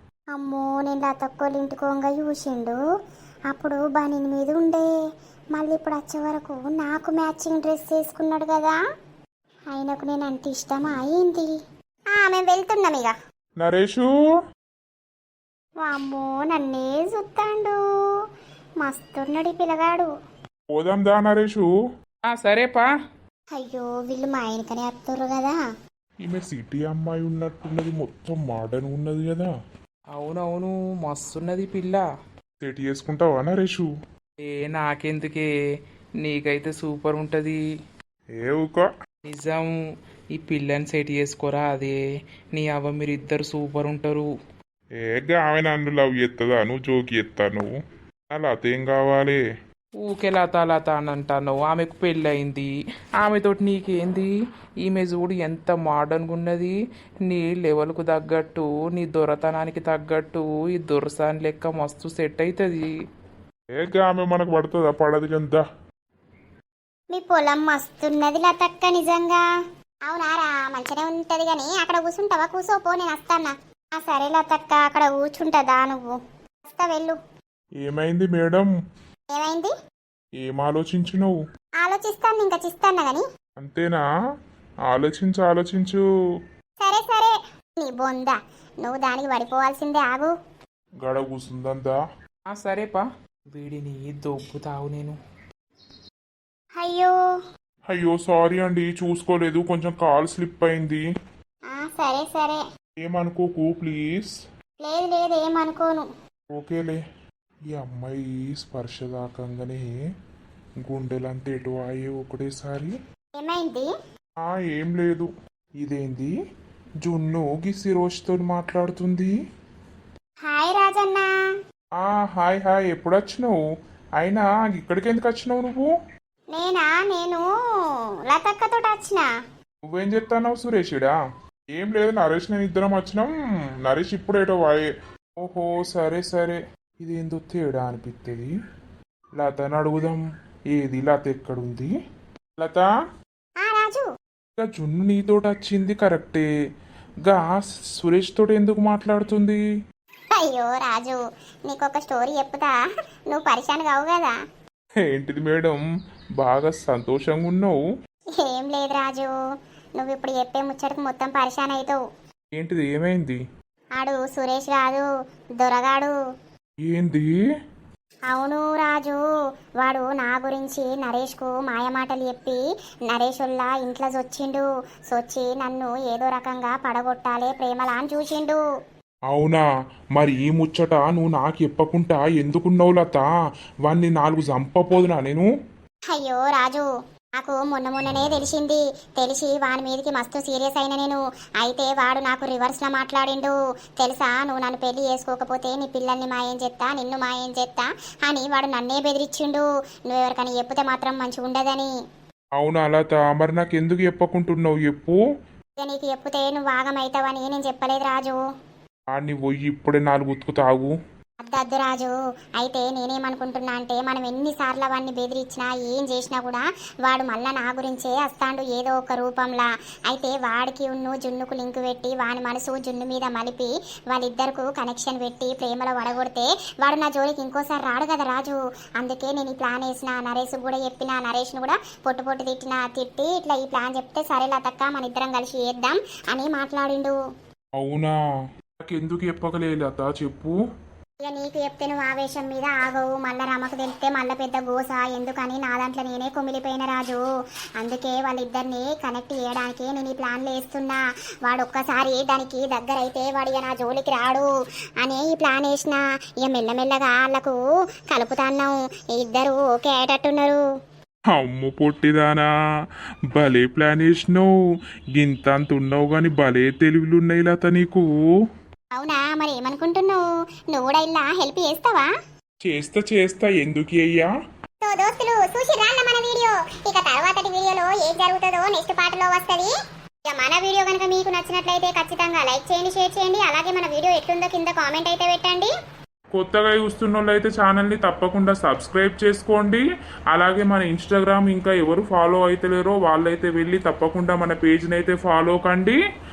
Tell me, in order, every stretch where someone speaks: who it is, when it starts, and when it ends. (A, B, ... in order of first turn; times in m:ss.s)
0:00.3-0:02.8 A
0:03.5-0:04.9 A
0:05.5-0:08.8 A
0:09.7-0:11.5 A
0:12.1-0:13.1 A
0:13.6-0:14.1 B
0:15.8-0:17.8 A
0:18.8-0:20.1 A
0:20.7-0:21.7 B
0:22.3-0:22.8 C
0:23.5-0:25.6 A
0:26.2-0:29.5 B
0:30.2-0:32.0 C
0:32.6-0:33.9 B
0:34.4-0:35.5 C
0:36.2-0:37.6 C
0:38.4-0:38.9 B
0:39.2-0:39.7 C
0:40.4-0:42.0 C
0:42.5-0:44.3 C
0:45.0-0:47.7 B
0:48.3-0:49.4 B
0:50.0-0:52.7 C
0:53.2-0:54.3 C
0:54.8-0:56.7 C
0:57.3-1:02.9 C
1:03.8-1:05.6 B
1:07.1-1:09.4 A
1:10.1-1:17.2 A
1:17.8-1:18.7 B
1:19.3-1:19.7 A
1:20.4-1:21.4 B
1:21.8-1:23.2 A
1:23.6-1:24.0 B
1:24.9-1:26.0 B
1:26.8-1:30.3 A
1:31.0-1:31.9 B
1:32.5-1:35.1 C
1:36.8-1:37.1 A
1:37.9-1:41.0 B
1:41.7-1:42.6 A
1:43.0-1:44.3 B
1:44.8-1:46.0 A
1:46.5-1:47.0 B
1:47.7-1:49.9 B
1:50.8-1:52.9 B
1:53.4-1:53.9 A
1:54.4-1:55.3 B
1:55.8-1:56.3 B
1:57.0-1:59.3 B
2:00.4-2:01.3 A
2:02.0-2:03.6 B
2:04.2-2:05.8 B
2:06.5-2:07.5 A
2:08.3-2:09.3 A
2:09.9-2:11.1 B
2:11.7-2:13.3 B
2:13.8-2:14.9 B
2:15.4-2:18.5 B
2:19.4-2:21.9 B
2:22.6-2:22.9 B
2:23.6-2:24.1 A
2:24.6-2:26.4 B
2:27.2-2:29.6 B
2:30.3-2:32.7 A
2:33.3-2:34.3 A
2:35.0-2:35.8 B
2:36.4-2:37.8 B
2:38.4-2:39.3 A
2:40.0-2:42.0 A
2:42.6-2:43.4 B
2:44.0-2:45.0 A
2:45.6-2:46.1 A
2:46.8-2:47.3 B
2:48.3-2:49.2 A
2:49.8-2:58.6 A
2:59.3-2:59.6 B
3:00.2-3:03.3 B
3:03.8-3:05.5 B
3:06.1-3:06.8 A
3:07.4-3:21.9 A
3:22.6-3:25.2 B
3:25.8-3:28.4 A
3:29.1-3:30.9 B
3:31.4-3:57.1 A
3:57.8-3:58.1 B
3:58.8-4:00.5 B
4:01.2-4:07.2 A
4:07.8-4:14.5 A
4:15.0-4:17.6 A
4:18.1-4:20.6 A
4:21.3-4:22.5 B
4:23.3-4:24.5 B
4:25.2-4:28.1 B
4:29.0-4:30.2 A
4:30.7-4:32.1 A
4:32.6-4:34.3 B
4:34.8-4:39.7 A
4:40.3-4:45.7 A
4:46.3-4:56.0 B